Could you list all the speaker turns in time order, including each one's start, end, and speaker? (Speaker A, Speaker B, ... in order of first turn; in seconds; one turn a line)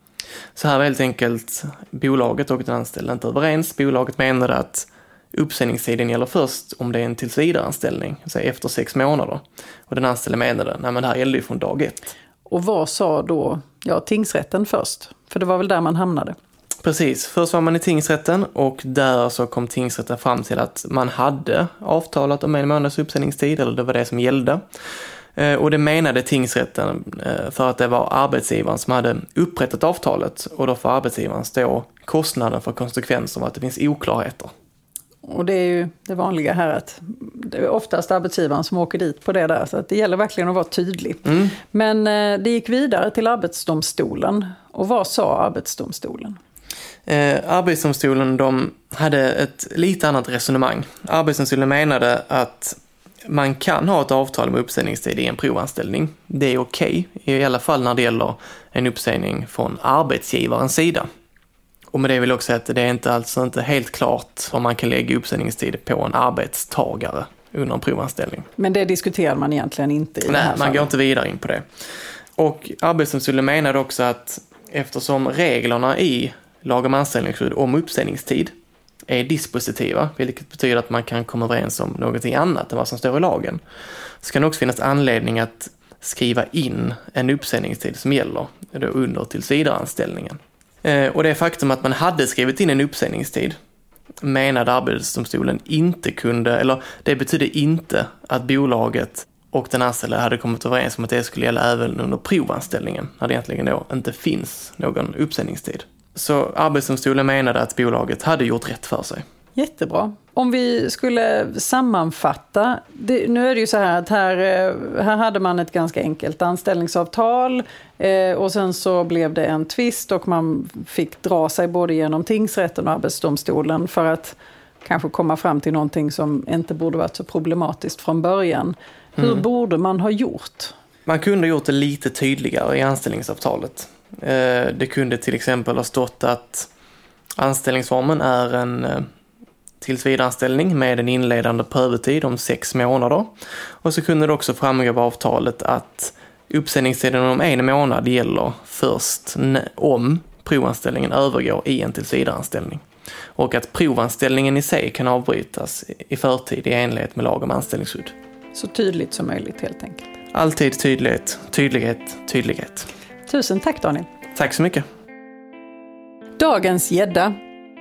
Speaker A: 0.5-12.1
Speaker B: 12.5-16.4
Speaker A: 16.8-24.6
Speaker A: 25.4-34.5
Speaker B: 35.2-46.4
Speaker A: 47.1-61.0
Speaker A: 61.9-68.5
Speaker B: 68.6-70.9
Speaker A: 70.3-71.6
Speaker A: 72.4-78.5
Speaker A: 79.1-83.6
Speaker A: 84.2-93.5
Speaker A: 94.2-109.2
Speaker B: 109.5-130.7
Speaker A: 131.1-136.7
Speaker A: 137.4-139.0
Speaker A: 139.8-152.8
Speaker A: 153.3-158.1
Speaker B: 158.5-160.1
Speaker A: 160.3-162.9
Speaker B: 163.3-164.1
Speaker A: 164.3-164.8
Speaker B: 166.4-167.3